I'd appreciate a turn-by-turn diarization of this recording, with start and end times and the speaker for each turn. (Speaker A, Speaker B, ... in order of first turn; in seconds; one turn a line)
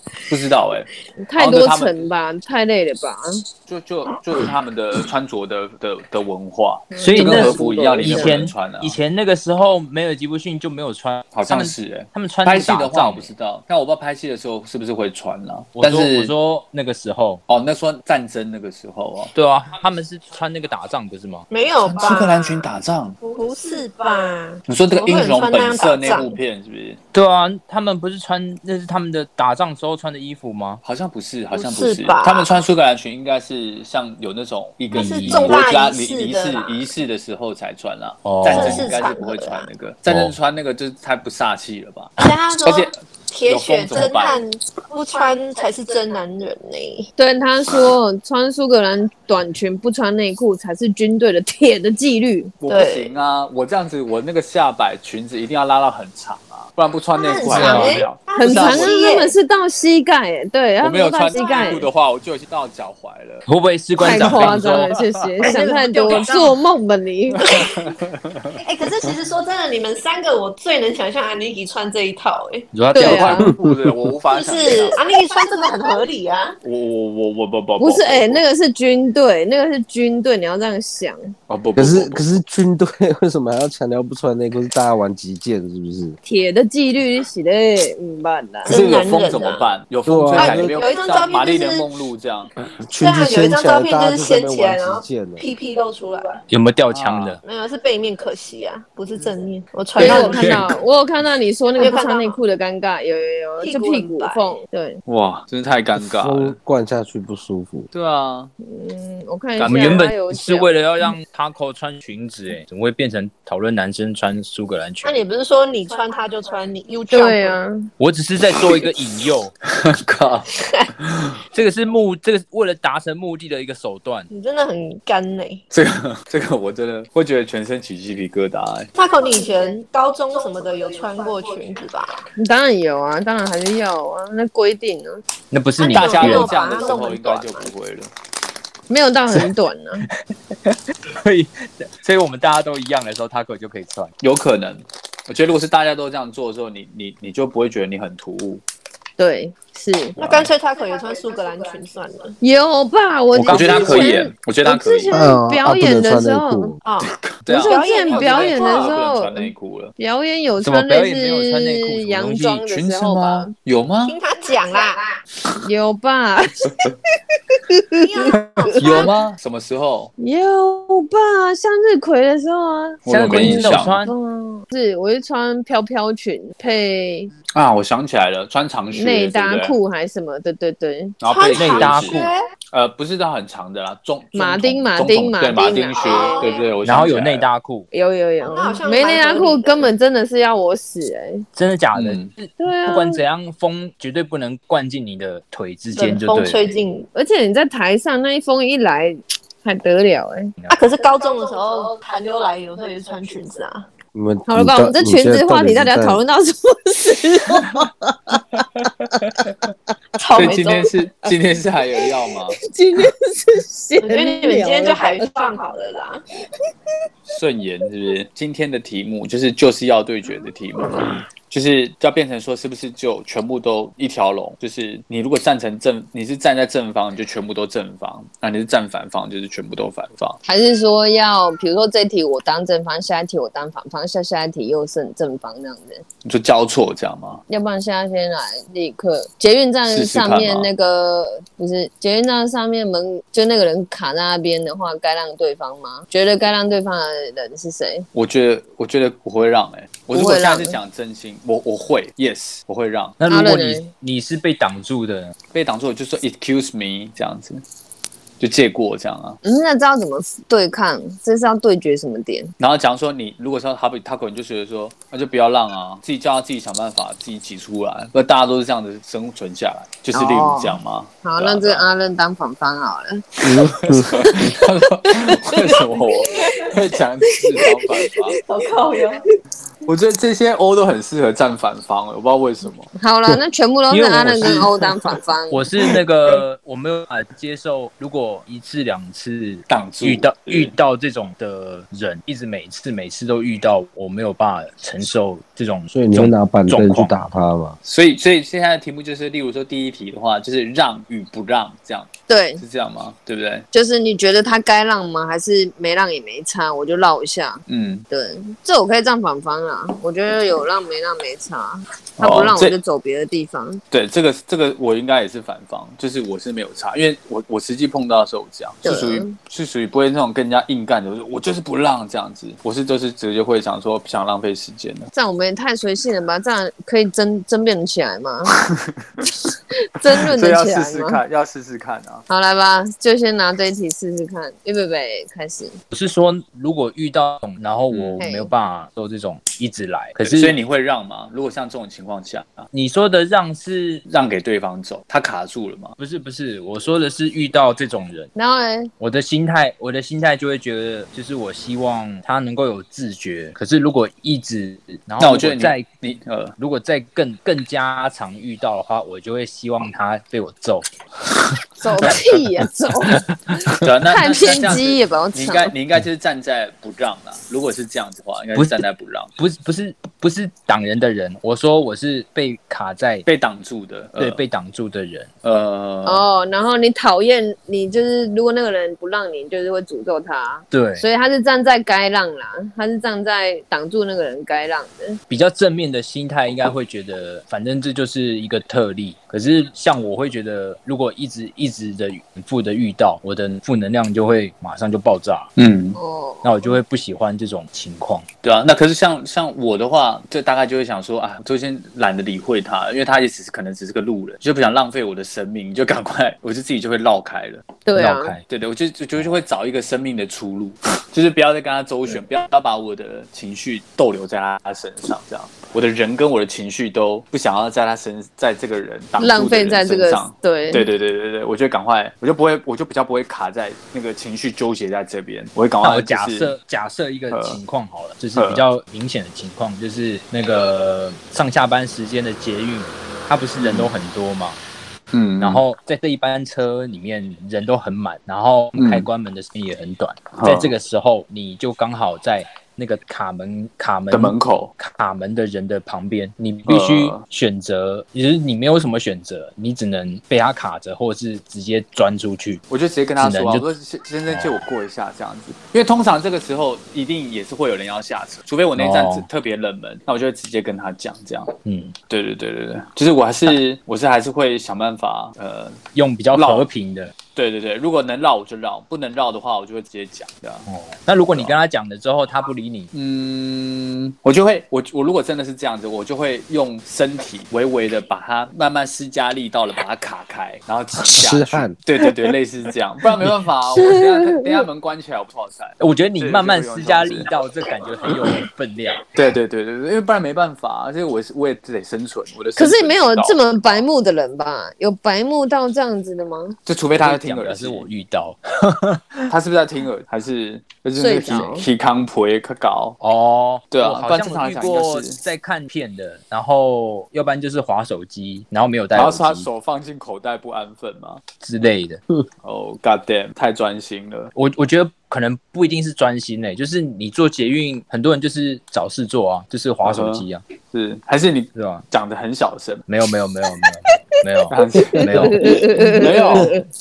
Speaker A: 0.3-2.0
Speaker B: 1.2-3.4
Speaker A: 3.7-9.0
Speaker B: 6.9-8.5
Speaker C: 6.9-13.3
Speaker A: 11.3-16.3
Speaker C: 15.8-17.4
Speaker A: 17.5-19.3
Speaker C: 19.3-21.5
Speaker D: 21.5-22.7
Speaker A: 21.9-23.2
Speaker D: 23.2-26.4
Speaker A: 24.7-27.0
Speaker C: 27.1-30.8
Speaker A: 30.8-44.4
Speaker D: 31.5-32.6
Speaker C: 34.9-35.6
Speaker D: 34.9-36.9
Speaker C: 38.2-38.9
Speaker D: 38.5-39.7
Speaker C: 40.1-40.3
Speaker D: 42.2-47.1
Speaker B: 47.2-52.5
Speaker A: 52.6-59.0
Speaker D: 52.7-53.1
Speaker D: 57.1-59.4
Speaker C: 57.5-58.0
Speaker B: 58.4-61.9
Speaker A: 60.8-63.5
Speaker D: 61.3-61.9
Speaker C: 63.5-65.0
Speaker B: 64.0-67.7
Speaker A: 64.0-65.0
Speaker D: 65.4-66.6
Speaker A: 67.4-68.6
Speaker D: 67.5-67.9
Speaker D: 68.6-72.7
Speaker C: 72.7-73.5
Speaker B: 72.9-73.5
Speaker A: 72.9-75.0
Speaker E: 73.6-73.9
Speaker D: 74.3-76.6
Speaker A: 76.6-78.4
Speaker B: 77.8-81.3
Speaker A: 81.5-82.2
Speaker E: 81.8-86.2
Speaker B: 86.2-88.8
Speaker D: 88.6-89.7
Speaker A: 88.7-92.5
Speaker E: 90.1-90.8
Speaker D: 90.3-91.9
Speaker E: 92.8-95.4
Speaker D: 93.0-96.4
Speaker C: 96.5-97.4
Speaker A: 96.9-97.4
Speaker D: 97.4-100.7
Speaker B: 100.0-105.0
Speaker C: 100.0-100.7
Speaker D: 101.8-102.4
Speaker D: 103.6-104.6
Speaker A: 105.0-106.5
Speaker E: 106.0-107.9
Speaker A: 107.9-108.5
Speaker B: 108.6-110.7
Speaker A: 109.6-110.0
Speaker C: 109.6-115.2
Speaker D: 115.0-117.6
Speaker B: 117.1-117.9
Speaker C: 118.0-119.5
Speaker A: 119.7-121.4
Speaker D: 120.5-120.9
Speaker C: 121.5-124.3
Speaker D: 124.3-125.6
Speaker A: 125.7-128.9
Speaker D: 128.9-132.2
Speaker B: 132.3-135.2
Speaker C: 135.5-136.8
Speaker D: 135.8-137.7
Speaker A: 135.9-138.1
Speaker B: 138.9-140.0
Speaker C: 140.7-144.1
Speaker A: 144.2-148.6
Speaker B: 149.2-150.2
Speaker D: 150.2-152.3
Speaker A: 150.2-150.5
Speaker B: 152.4-156.8
Speaker C: 153.3-154.2
Speaker A: 153.4-155.2
Speaker E: 155.1-156.8
Speaker D: 156.8-159.0
Speaker A: 157.0-159.9
Speaker B: 157.5-163.5
Speaker C: 160.6-162.6
Speaker A: 162.7-164.2
Speaker D: 164.0-165.2
Speaker B: 165.6-169.1
Speaker D: 168.0-169.1
Speaker A: 168.6-170.1
Speaker B: 170.2-177.3
Speaker A: 173.0-174.0
Speaker C: 173.1-174.1
Speaker A: 177.5-179.8
Speaker B: 178.9-181.2
Speaker A: 181.2-187.4
Speaker D: 181.3-182.5
Speaker C: 181.6-182.3
Speaker B: 184.3-186.6
Speaker D: 185.6-186.7
Speaker C: 186.8-187.9
Speaker B: 187.9-191.4
Speaker D: 188.4-189.9
Speaker C: 191.5-196.7
Speaker A: 191.9-192.3
Speaker B: 192.6-193.2
Speaker D: 195.9-197.1
Speaker B: 197.1-200.5
Speaker D: 200.7-203.9
Speaker E: 204.1-206.2
Speaker B: 204.5-207.9
Speaker A: 208.9-209.5
Speaker D: 210.2-210.9
Speaker A: 210.3-212.6
Speaker B: 212.6-215.2
Speaker D: 214.0-216.2
Speaker A: 217.3-230.4
Speaker B: 230.4-236.0
Speaker A: 236.2-237.4
Speaker B: 237.5-248.1
Speaker A: 239.9-240.7
Speaker A: 248.1-253.2
Speaker B: 250.1-250.8
Speaker C: 253.2-255.3
Speaker B: 253.3-253.9
Speaker A: 255.5-257.6
Speaker A: 258.4-259.4
Speaker B: 259.4-262.5
Speaker A: 262.6-271.9
Speaker B: 270.1-273.2
Speaker E: 273.4-274.5
Speaker A: 273.4-278.4
Speaker B: 275.2-275.8
Speaker B: 277.5-278.0
Speaker D: 278.4-279.2
Speaker A: 279.8-282.9
Speaker B: 283.0-285.6
Speaker C: 283.9-284.7
Speaker C: 285.5-297.3
Speaker A: 289.7-290.7
Speaker E: 295.9-297.8
Speaker A: 297.8-303.6
Speaker B: 302.3-302.6
Speaker B: 303.7-313.8
Speaker A: 307.7-308.0
Speaker A: 312.2-312.8
Speaker A: 313.9-325.1
Speaker B: 318.8-319.3
Speaker B: 325.1-328.5
Speaker A: 328.6-329.3
Speaker B: 329.9-331.2
Speaker A: 330.1-332.2
Speaker B: 332.3-335.8
Speaker C: 335.9-340.6
Speaker A: 337.9-338.2
Speaker B: 338.2-338.5
Speaker A: 340.2-342.7
Speaker C: 342.7-344.0
Speaker A: 344.1-345.9
Speaker C: 346.0-348.3
Speaker B: 348.3-348.9
Speaker C: 349.0-355.9
Speaker A: 355.2-356.6
Speaker C: 356.6-360.9
Speaker B: 361.8-365.7
Speaker C: 362.0-362.4
Speaker A: 363.8-369.3
Speaker C: 368.5-368.8
Speaker C: 369.4-373.2
Speaker A: 373.2-374.4
Speaker C: 374.1-375.3
Speaker A: 375.4-376.2
Speaker B: 376.0-385.2
Speaker C: 380.7-381.0
Speaker C: 385.3-395.5
Speaker A: 395.6-396.0
Speaker B: 395.9-396.8
Speaker C: 396.4-398.2
Speaker A: 398.4-407.6
Speaker B: 407.9-408.4
Speaker C: 407.9-408.4
Speaker A: 408.4-426.5
Speaker B: 419.2-420.9
Speaker C: 425.8-434.6
Speaker A: 427.3-427.6
Speaker A: 428.4-428.6
Speaker A: 433.6-433.9
Speaker A: 435.1-435.6
Speaker C: 435.4-452.6
Speaker A: 438.8-439.1
Speaker A: 440.3-440.7
Speaker A: 444.1-444.7
Speaker A: 446.7-447.2
Speaker A: 452.7-461.5
Speaker C: 453.2-453.7
Speaker C: 454.3-454.6
Speaker C: 458.8-459.3
Speaker C: 461.6-461.9
Speaker A: 462.1-465.8
Speaker C: 465.9-467.1
Speaker A: 466.3-466.7
Speaker A: 467.3-470.7
Speaker C: 470.7-472.9
Speaker A: 472.9-487.3
Speaker E: 481.1-481.8
Speaker B: 483.7-484.6
Speaker C: 485.8-489.1
Speaker A: 489.1-493.9
Speaker B: 492.6-496.6
Speaker A: 496.6-497.9
Speaker C: 496.9-499.3
Speaker A: 499.3-503.0
Speaker B: 501.0-501.6
Speaker C: 503.0-509.5
Speaker A: 503.7-505.2
Speaker A: 508.9-511.2
Speaker C: 511.4-512.0
Speaker A: 512.4-514.3
Speaker C: 514.3-520.4
Speaker A: 519.8-522.9
Speaker C: 521.5-521.8
Speaker C: 522.9-525.5
Speaker A: 524.5-526.6
Speaker B: 525.2-526.6